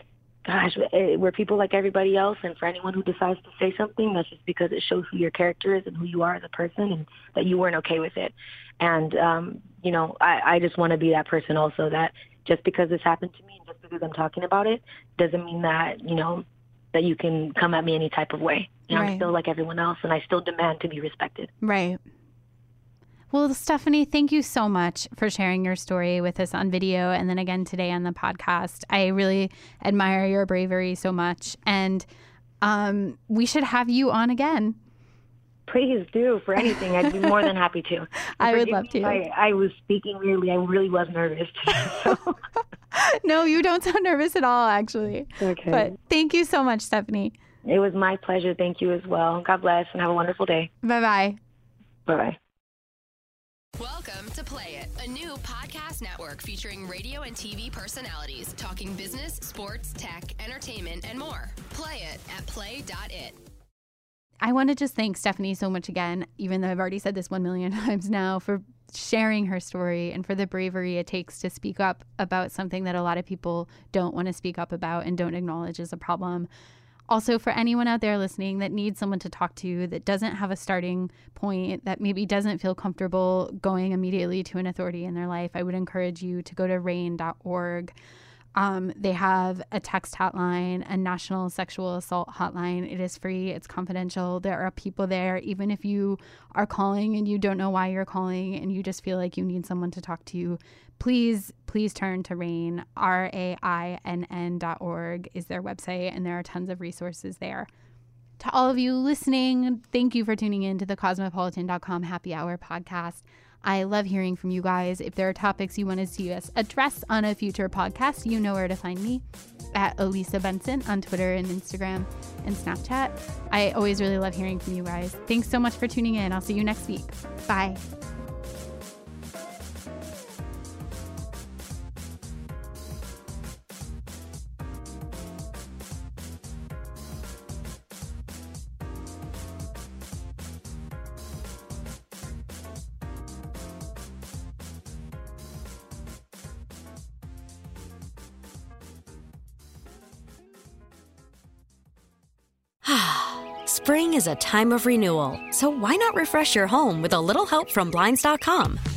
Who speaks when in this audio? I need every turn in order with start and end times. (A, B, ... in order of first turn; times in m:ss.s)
0:00.4-0:21.5 A
0:18.9-0:19.3 B
0:21.6-0:22.0 B
0:23.3-0:32.0 B
0:32.6-0:34.8 B
0:35.7-0:42.3 A
0:38.4-0:39.2 B
0:41.8-0:42.2 B
0:42.9-0:47.3 B
0:45.4-0:45.9 A
0:47.6-0:50.7 A
0:50.8-0:51.4 B
0:52.0-0:52.4 A
0:53.8-1:03.4 C
1:04.4-1:16.5 B
1:17.1-1:27.9 B
1:28.6-1:47.7 B
1:48.4-1:59.2 B
1:59.7-2:07.8 B
2:32.8-2:38.8 D